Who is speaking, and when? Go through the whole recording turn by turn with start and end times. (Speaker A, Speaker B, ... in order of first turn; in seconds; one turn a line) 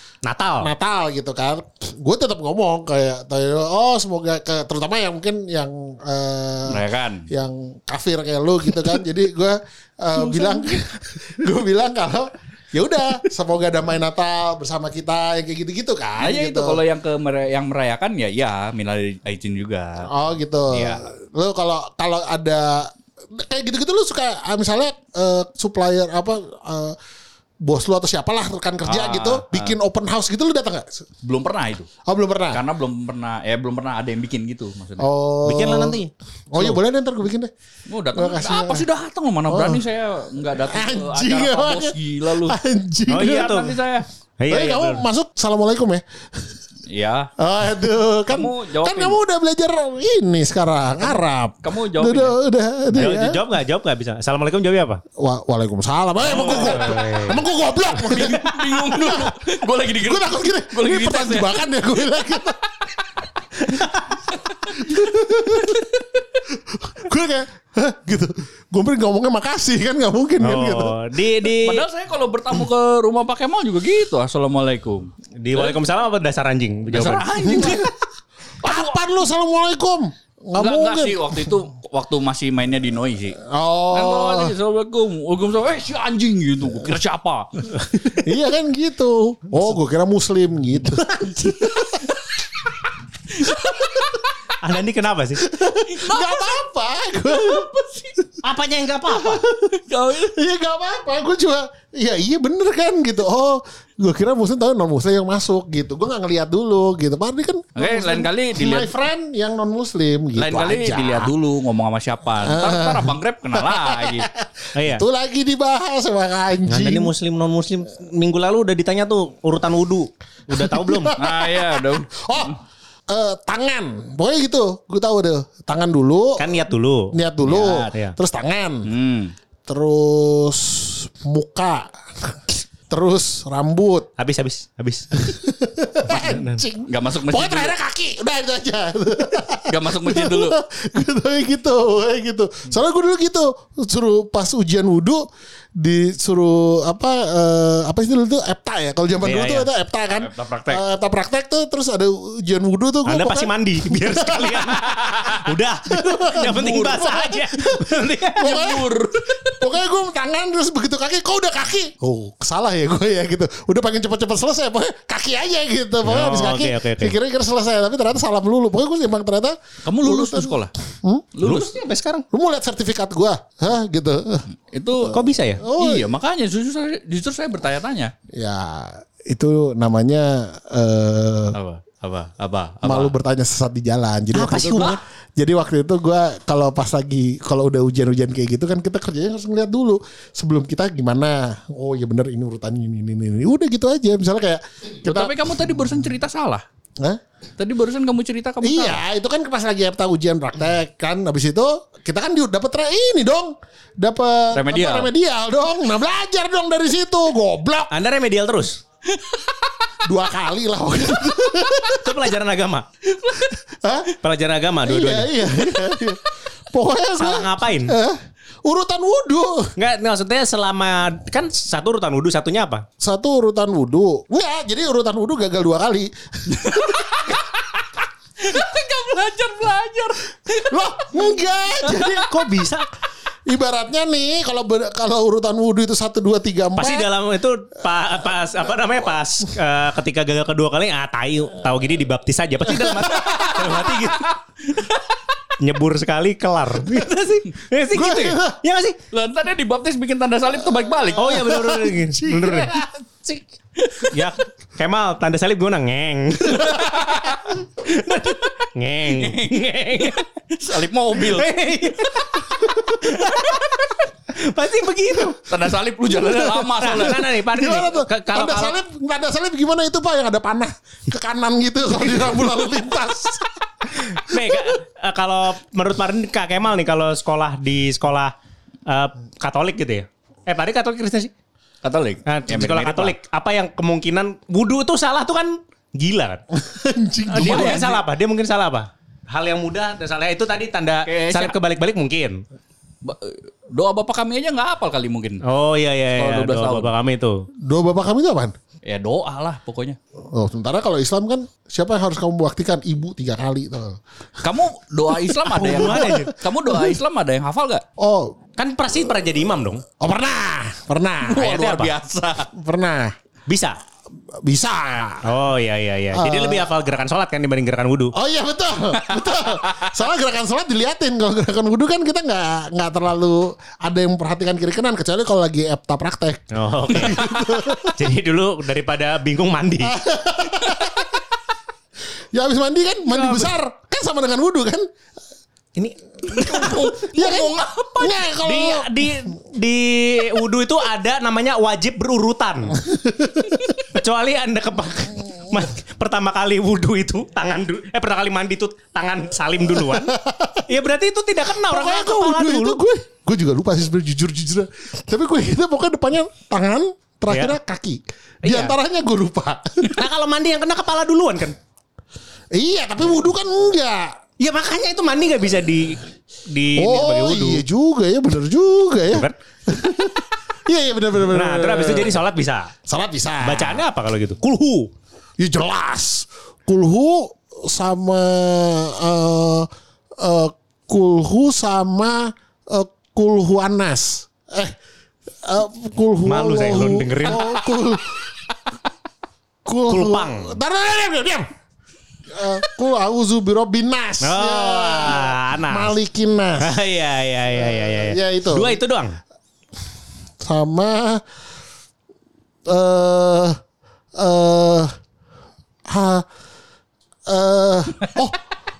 Speaker A: 0.2-0.7
Speaker B: 0.6-16.8
Speaker C: 6.7-7.2
Speaker C: 10.2-10.8
Speaker C: 16.2-20.1
Speaker B: 20.1-26.9
Speaker C: 20.7-21.0
Speaker B: 27.6-31.1
Speaker C: 28.8-29.8
Speaker C: 31.2-31.9
Speaker B: 32.0-32.6
Speaker C: 32.5-35.0
Speaker B: 35.0-36.0
Speaker A: 35.5-36.8
Speaker B: 36.5-37.5
Speaker C: 37.9-44.0
Speaker B: 38.1-38.8
Speaker B: 39.5-39.8
Speaker B: 40.7-43.5
Speaker A: 43.1-43.8
Speaker A: 44.4-45.0
Speaker B: 44.5-46.6
Speaker C: 46.9-47.3
Speaker B: 47.4-53.4
Speaker C: 48.3-49.2
Speaker C: 51.6-52.4
Speaker A: 52.9-55.0
Speaker B: 55.2-59.3
Speaker A: 56.2-57.4
Speaker C: 56.3-57.0
Speaker A: 58.0-58.6
Speaker C: 58.1-61.6
Speaker B: 60.0-62.6
Speaker B: 64.7-65.9
Speaker B: 66.5-71.0
Speaker A: 70.4-71.8
Speaker C: 71.6-75.8
Speaker A: 75.4-77.7
Speaker C: 76.9-77.9
Speaker B: 77.4-77.9
Speaker B: 78.6-81.5
Speaker C: 78.6-79.0
Speaker C: 80.5-83.4
Speaker B: 83.5-84.5
Speaker C: 83.9-87.5
Speaker B: 88.0-92.1
Speaker C: 93.4-94.1
Speaker B: 93.6-94.0
Speaker A: 94.6-95.4
Speaker B: 95.4-98.4
Speaker C: 95.9-96.5
Speaker C: 97.4-98.1
Speaker A: 98.4-99.4
Speaker B: 99.1-99.8
Speaker C: 99.7-100.3
Speaker B: 100.3-111.3
Speaker C: 107.7-108.9
Speaker C: 110.3-114.3
Speaker B: 112.4-117.1
Speaker A: 114.8-115.0
Speaker A: 116.7-121.1
Speaker B: 120.5-122.6
Speaker C: 121.2-122.6
Speaker B: 123.1-126.6
Speaker A: 126.4-127.1
Speaker B: 127.1-128.9
Speaker C: 127.5-127.9
Speaker C: 128.8-129.3
Speaker B: 129.7-134.1
Speaker A: 134.2-135.3
Speaker B: 135.2-145.2
Speaker A: 136.1-136.6
Speaker C: 136.9-137.7
Speaker C: 139.7-140.6
Speaker B: 145.8-171.3
Speaker A: 149.2-149.7
Speaker C: 150.1-150.8
Speaker A: 153.1-158.8
Speaker C: 154.9-155.4
Speaker C: 158.4-159.1
Speaker A: 166.0-167.1
Speaker C: 169.8-170.7
Speaker C: 171.3-171.7
Speaker A: 171.4-172.2
Speaker B: 172.3-174.4
Speaker C: 174.6-178.1
Speaker A: 175.1-175.6
Speaker B: 175.6-176.1
Speaker B: 178.3-181.6
Speaker C: 181.5-183.1
Speaker B: 182.8-195.4
Speaker A: 184.3-185.0
Speaker C: 195.0-196.6
Speaker C: 197.6-199.0
Speaker B: 198.6-207.9
Speaker C: 204.5-205.1
Speaker A: 207.9-208.8
Speaker C: 209.1-209.7
Speaker B: 210.0-212.1
Speaker A: 211.9-212.8
Speaker C: 213.2-213.5
Speaker B: 213.4-214.1
Speaker A: 214.2-216.0
Speaker B: 214.8-219.7
Speaker A: 217.2-217.9
Speaker A: 219.8-222.8
Speaker B: 223.0-227.5
Speaker C: 226.5-227.5
Speaker C: 228.4-230.9
Speaker B: 230.5-232.7
Speaker A: 231.8-232.8
Speaker B: 233.5-237.1
Speaker A: 236.8-244.2
Speaker B: 242.7-243.9
Speaker C: 243.2-245.1
Speaker A: 245.6-249.0
Speaker B: 247.9-248.6
Speaker C: 249.1-251.6
Speaker B: 250.9-253.4
Speaker A: 251.2-252.7
Speaker C: 253.8-254.1
Speaker A: 254.0-260.2
Speaker C: 256.8-257.4
Speaker C: 259.1-261.5
Speaker A: 261.2-265.4
Speaker C: 265.5-267.2
Speaker A: 266.5-268.7
Speaker B: 266.9-273.5
Speaker A: 274.0-278.3
Speaker B: 274.3-274.7
Speaker A: 278.9-281.3
Speaker C: 281.8-283.1
Speaker A: 282.2-286.4
Speaker B: 286.5-287.8
Speaker A: 287.3-292.4
Speaker C: 287.3-288.0
Speaker C: 291.1-291.6
Speaker C: 293.0-295.4
Speaker A: 295.4-297.4
Speaker C: 296.1-296.9
Speaker B: 297.6-298.5
Speaker C: 298.8-300.0
Speaker B: 300.3-304.0
Speaker C: 304.4-307.8
Speaker B: 305.2-306.3
Speaker A: 305.6-306.3
Speaker B: 308.0-308.3
Speaker A: 308.6-309.8
Speaker B: 310.0-311.9
Speaker C: 311.3-312.5
Speaker B: 312.5-313.1
Speaker A: 313.5-313.8
Speaker B: 314.4-315.3
Speaker A: 315.2-318.1
Speaker B: 316.1-316.7
Speaker B: 318.1-327.9
Speaker C: 319.0-319.9
Speaker A: 326.5-330.0
Speaker B: 329.8-331.2
Speaker B: 332.3-334.9
Speaker A: 335.8-336.8
Speaker C: 336.3-338.2
Speaker B: 336.4-339.1
Speaker A: 338.4-342.8
Speaker B: 342.8-343.8
Speaker A: 343.8-350.1
Speaker B: 349.9-350.7
Speaker A: 350.7-352.8
Speaker B: 351.7-360.0
Speaker A: 357.3-357.6
Speaker A: 358.4-358.7
Speaker A: 359.9-361.6
Speaker B: 362.5-364.1
Speaker A: 364.4-367.6
Speaker B: 366.8-372.2
Speaker A: 371.3-372.7
Speaker B: 372.9-373.8
Speaker A: 373.4-374.9
Speaker B: 375.4-379.7
Speaker B: 380.2-384.7
Speaker B: 385.4-388.3
Speaker A: 386.3-387.6
Speaker B: 389.6-391.5
Speaker A: 389.9-390.6
Speaker B: 392.3-396.8
Speaker A: 394.2-395.9
Speaker A: 396.6-399.2
Speaker B: 397.6-398.8
Speaker B: 400.4-401.2
Speaker B: 402.7-403.6
Speaker B: 404.1-404.9
Speaker B: 405.9-406.2
Speaker B: 407.3-408.4